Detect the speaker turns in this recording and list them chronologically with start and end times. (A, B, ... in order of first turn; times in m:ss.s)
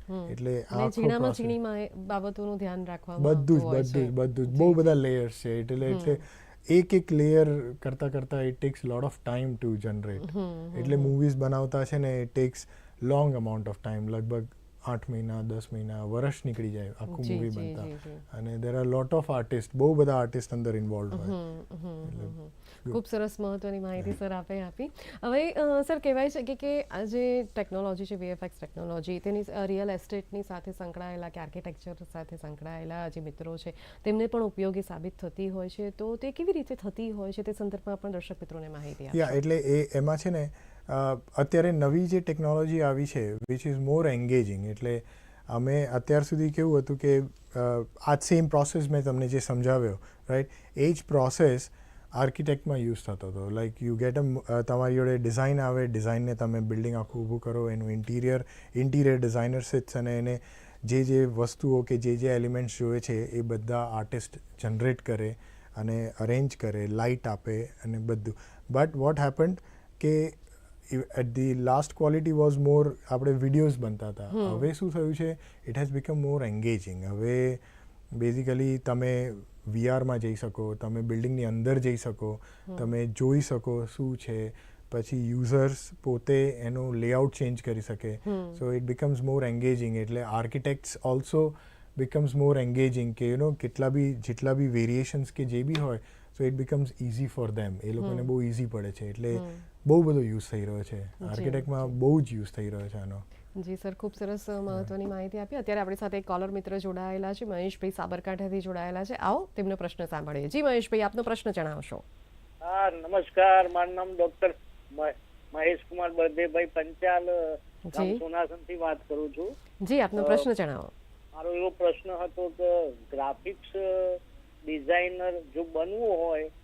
0:00.1-0:04.8 A
0:00.3-0:01.6 B
0:03.2-0:21.4 B
0:05.9-0:06.2 A
0:10.2-0:11.1 A
0:17.1-0:18.2 A
0:21.1-0:39.4 A
0:22.0-0:22.3 B
0:39.1-1:17.6 B
1:14.3-1:14.7 A
1:18.1-1:43.2 B
1:28.2-1:28.6 A
1:38.0-1:38.3 A
1:39.3-1:39.6 A
1:41.2-1:41.9 A
1:43.6-1:52.0 A
1:52.6-1:59.5 C
1:57.9-1:58.2 A
1:59.8-2:00.9 A
2:00.2-2:00.5 C
2:01.4-2:06.5 C